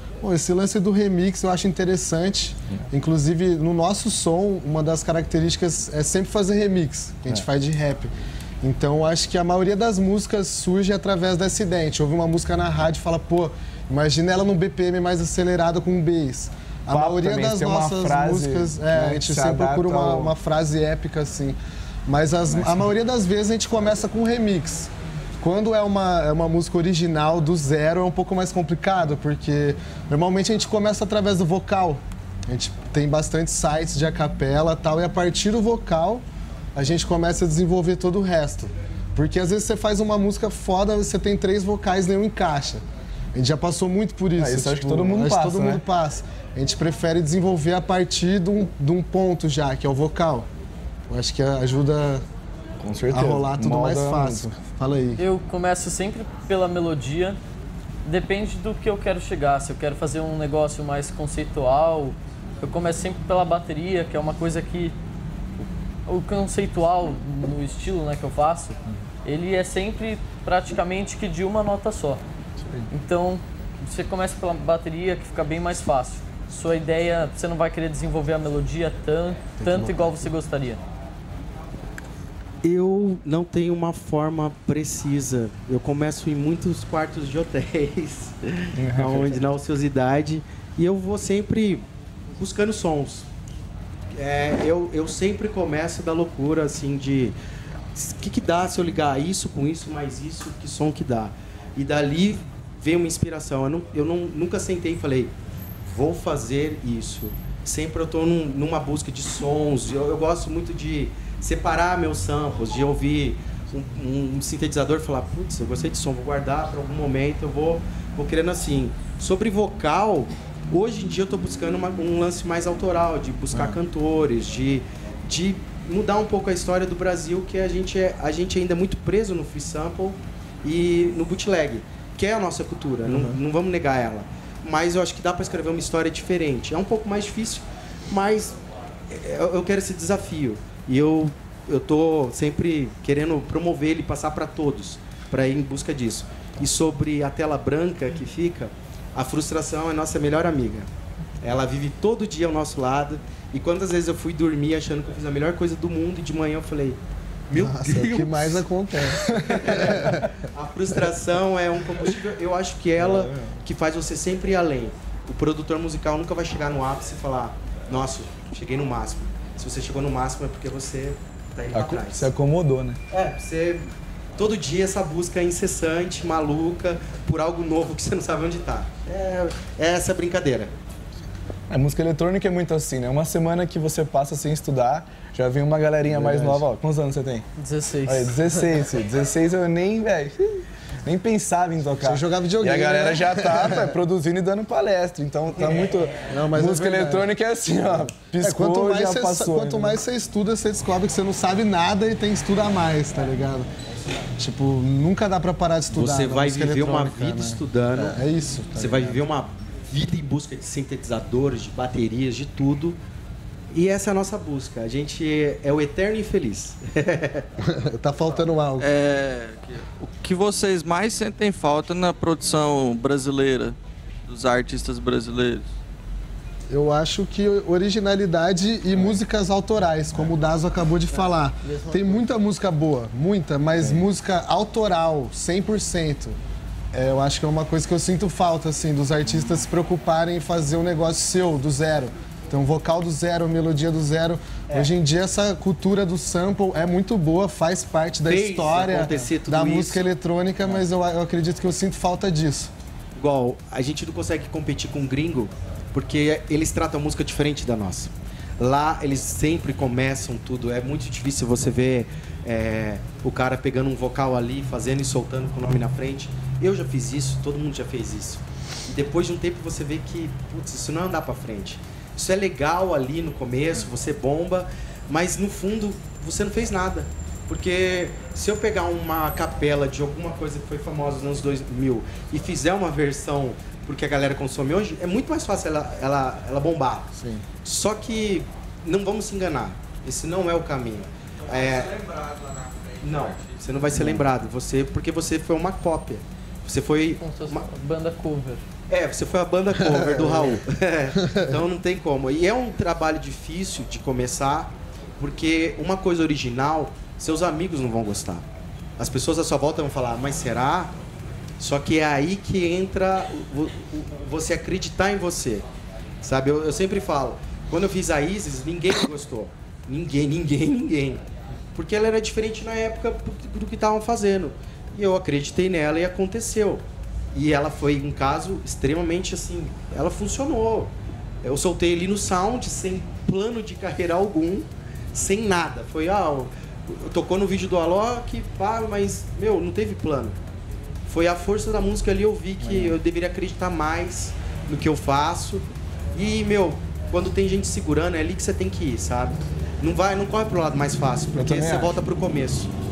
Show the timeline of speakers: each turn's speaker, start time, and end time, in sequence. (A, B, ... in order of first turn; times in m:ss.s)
0:00.2-0:50.5 A
0:16.9-0:20.4 B
0:22.5-0:22.9 B
0:44.4-0:45.8 B
0:51.1-0:52.2 A
0:52.8-0:54.5 B
0:53.1-0:55.2 A
0:55.2-0:57.4 C
0:58.0-1:05.0 C
1:06.1-1:12.2 C
1:12.9-1:20.8 C
1:19.6-1:20.3 A
1:22.6-1:31.9 D
1:28.7-1:29.4 B
1:32.4-1:33.3 D
1:34.2-1:37.4 D
1:38.0-1:45.3 D
1:45.9-2:18.6 D
2:19.1-2:30.9 D
2:31.4-2:52.3 D
2:37.5-2:40.3 A
2:43.0-2:43.6 B
2:51.7-2:53.0 B
2:53.1-3:00.7 D
3:01.7-3:07.5 B
3:06.1-3:06.6 A
3:07.6-3:08.5 C
3:08.0-3:20.0 B
3:12.0-3:13.9 A
3:16.2-3:17.3 A
3:18.4-3:23.7 A
3:24.4-3:29.2 A
3:25.9-3:33.0 D
3:33.7-3:37.5 D
3:37.6-3:38.9 A
3:38.8-3:43.8 E
3:44.3-3:45.6 E
3:46.7-3:56.4 A
3:48.9-3:49.2 B
3:51.1-3:52.3 C
3:53.8-3:54.1 B
3:56.9-4:12.7 A
4:08.3-4:10.0 D
4:13.2-4:47.1 D
4:47.2-4:47.5 B
4:47.6-4:52.0 D
4:52.0-4:53.0 E
4:53.0-4:57.7 D
4:53.9-4:54.2 B
4:57.2-4:58.6 C
4:58.9-5:08.4 D
5:09.0-5:10.9 D
5:11.6-5:15.7 D
5:16.2-5:21.2 D
5:21.8-5:30.9 D
5:31.4-5:40.4 D
5:41.1-5:52.7 D
5:42.6-5:43.0 B
5:51.4-5:52.0 B